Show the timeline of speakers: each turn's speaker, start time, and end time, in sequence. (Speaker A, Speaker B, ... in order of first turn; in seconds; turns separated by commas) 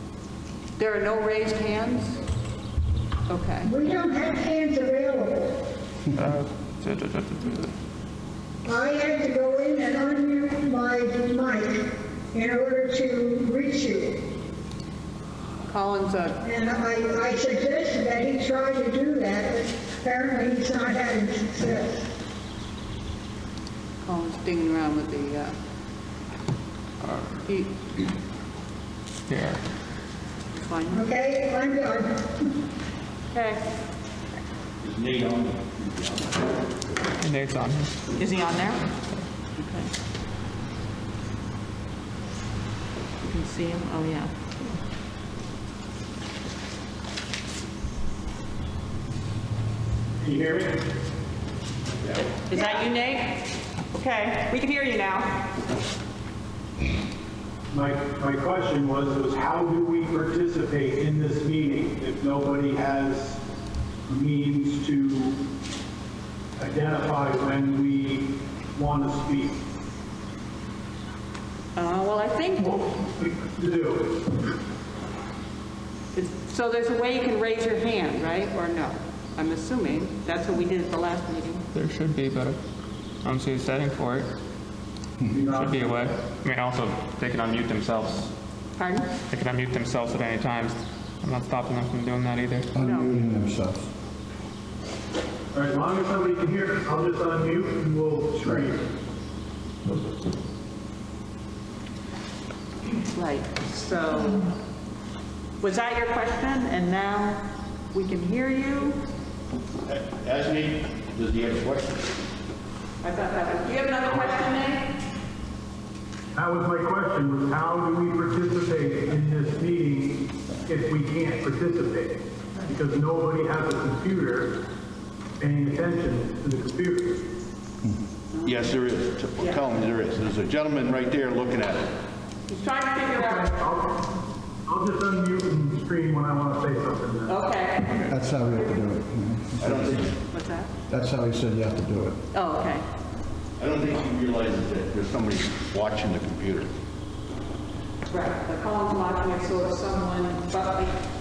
Speaker A: 0.8-2.2, Speaker A: 3.3-3.7, Speaker B: 3.6-5.5, Speaker C: 6.1-7.7, Speaker B: 8.7-14.2, Speaker A: 15.7-16.4, Speaker B: 16.4-22.1, Speaker A: 24.0-25.6, Speaker A: 27.5-27.7, Speaker C: 29.3-29.6, Speaker A: 30.5-31.1, Speaker B: 30.9-32.5, Speaker A: 33.3-33.6, Speaker D: 34.8-36.6, Speaker C: 37.2-37.9, Speaker A: 38.2-38.8, Speaker A: 39.6-39.9, Speaker A: 43.2-44.3, Speaker E: 50.2-50.8, Speaker D: 52.0-52.4, Speaker A: 52.5-53.3, Speaker A: 53.9-55.4, Speaker E: 57.7-63.4, Speaker E: 64.1-65.4, Speaker E: 66.6-69.6, Speaker A: 71.8-72.8, Speaker E: 72.6-74.2, Speaker A: 76.2-81.6, Speaker C: 81.7-82.6, Speaker C: 83.2-84.3, Speaker E: 85.3-86.2, Speaker C: 85.5-88.3, Speaker A: 88.8-89.1, Speaker C: 89.3-92.7, Speaker F: 92.8-93.9, Speaker A: 92.8-93.1, Speaker E: 95.5-98.8, Speaker A: 103.1-104.4, Speaker A: 105.6-109.0, Speaker D: 109.9-112.1, Speaker A: 113.0-114.9, Speaker E: 116.3-124.6, Speaker E: 125.4-127.2, Speaker A: 128.3-128.9, Speaker D: 128.4-131.9, Speaker A: 129.4-129.8, Speaker A: 132.5-133.6, Speaker E: 133.1-134.0, Speaker E: 134.7-137.4, Speaker A: 137.3-138.1, Speaker F: 138.1-140.1, Speaker D: 139.6-140.2, Speaker A: 140.3-140.7, Speaker F: 140.9-142.2, Speaker A: 142.3-142.8, Speaker D: 143.6-146.7, Speaker A: 148.1-150.9